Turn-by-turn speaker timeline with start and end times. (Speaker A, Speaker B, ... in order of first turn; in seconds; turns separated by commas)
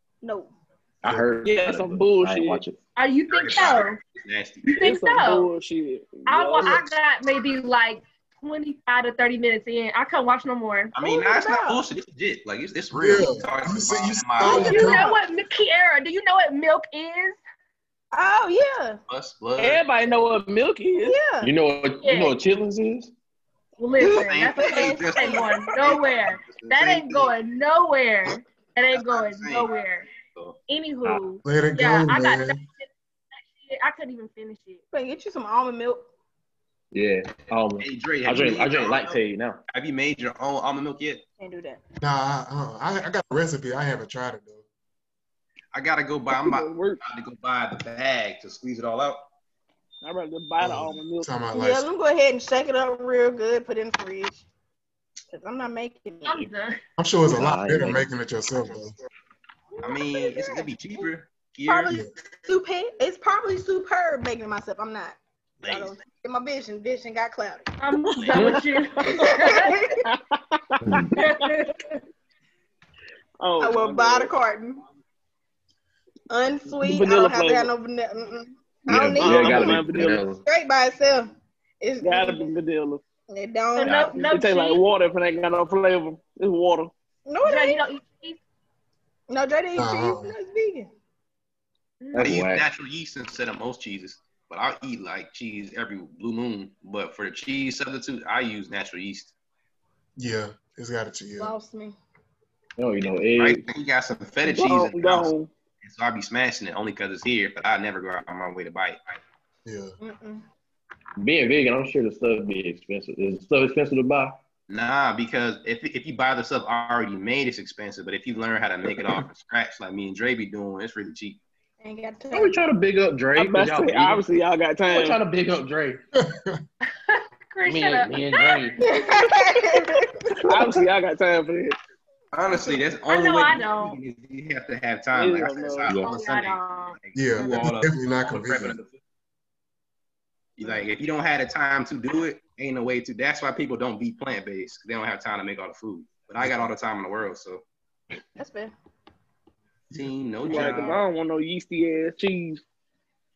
Speaker A: 0.2-0.5, Speaker B: 1.0-2.8, Speaker C: 1.4-2.6, Speaker D: 3.0-4.0, Speaker E: 3.3-4.8, Speaker C: 4.6-6.8, Speaker D: 4.8-5.5, Speaker D: 6.2-10.9, Speaker E: 10.9-14.9, Speaker A: 11.0-11.8, Speaker F: 12.9-15.1, Speaker D: 14.4-17.4, Speaker A: 14.4-15.2, Speaker A: 18.1-19.0, Speaker E: 19.1-19.8, Speaker C: 19.6-21.2, Speaker A: 21.0-21.5, Speaker B: 21.4-23.1, Speaker D: 22.0-22.3, Speaker D: 23.8-30.1, Speaker A: 24.0-25.6, Speaker E: 24.0-27.3, Speaker E: 28.9-29.7, Speaker D: 30.7-32.9, Speaker F: 31.4-32.6, Speaker D: 33.5-34.8, Speaker A: 34.9-36.1, Speaker B: 36.9-39.6, Speaker E: 37.8-39.2, Speaker E: 39.7-41.2, Speaker A: 41.4-41.8, Speaker F: 42.0-44.6, Speaker E: 45.7-49.2, Speaker C: 46.3-47.0, Speaker C: 50.0-51.3, Speaker F: 50.6-51.9, Speaker A: 51.5-54.4, Speaker A: 55.3-56.5, Speaker D: 56.2-56.8, Speaker F: 57.0-58.9, Speaker B: 57.3-58.1, Speaker A: 59.8-60.6, Speaker E: 59.8-62.0, Speaker A: 61.7-67.7, Speaker E: 65.6-65.9, Speaker D: 67.8-69.7, Speaker B: 68.3-68.6, Speaker A: 69.0-70.0, Speaker B: 70.8-71.2, Speaker D: 71.1-71.7, Speaker C: 73.4-74.3, Speaker A: 73.6-74.8, Speaker A: 76.3-79.9, Speaker C: 76.7-77.7, Speaker B: 78.9-80.4, Speaker C: 79.1-80.3, Speaker A: 80.4-82.5, Speaker C: 82.0-83.0, Speaker A: 83.3-84.2, Speaker D: 83.7-84.8, Speaker B: 83.8-84.3, Speaker C: 84.2-86.9, Speaker A: 87.2-87.8, Speaker D: 87.4-88.4, Speaker A: 89.3-90.9, Speaker F: 89.8-90.3, Speaker D: 92.0-92.4, Speaker B: 92.1-92.7, Speaker E: 92.2-99.3, Speaker F: 100.2-101.5, Speaker A: 101.4-102.0, Speaker B: 102.8-103.7, Speaker E: 103.1-105.3, Speaker C: 104.4-105.5, Speaker E: 105.8-109.2, Speaker F: 109.6-109.9, Speaker A: 110.0-110.4, Speaker B: 111.2-114.4, Speaker E: 114.7-121.4, Speaker A: 121.8-122.6, Speaker B: 122.3-124.2, Speaker C: 123.3-125.2, Speaker B: 124.9-126.0, Speaker F: 126.2-126.6, Speaker D: 126.9-129.1, Speaker B: 127.7-128.8, Speaker A: 128.8-130.3, Speaker C: 130.4-131.8, Speaker E: 132.3-138.9, Speaker D: 133.1-134.0, Speaker C: 135.1-136.0, Speaker D: 135.9-137.0, Speaker F: 137.1-138.8, Speaker E: 140.6-147.6, Speaker A: 148.4-148.7, Speaker E: 149.9-151.0, Speaker C: 150.4-152.6, Speaker B: 150.5-150.8, Speaker A: 150.6-151.0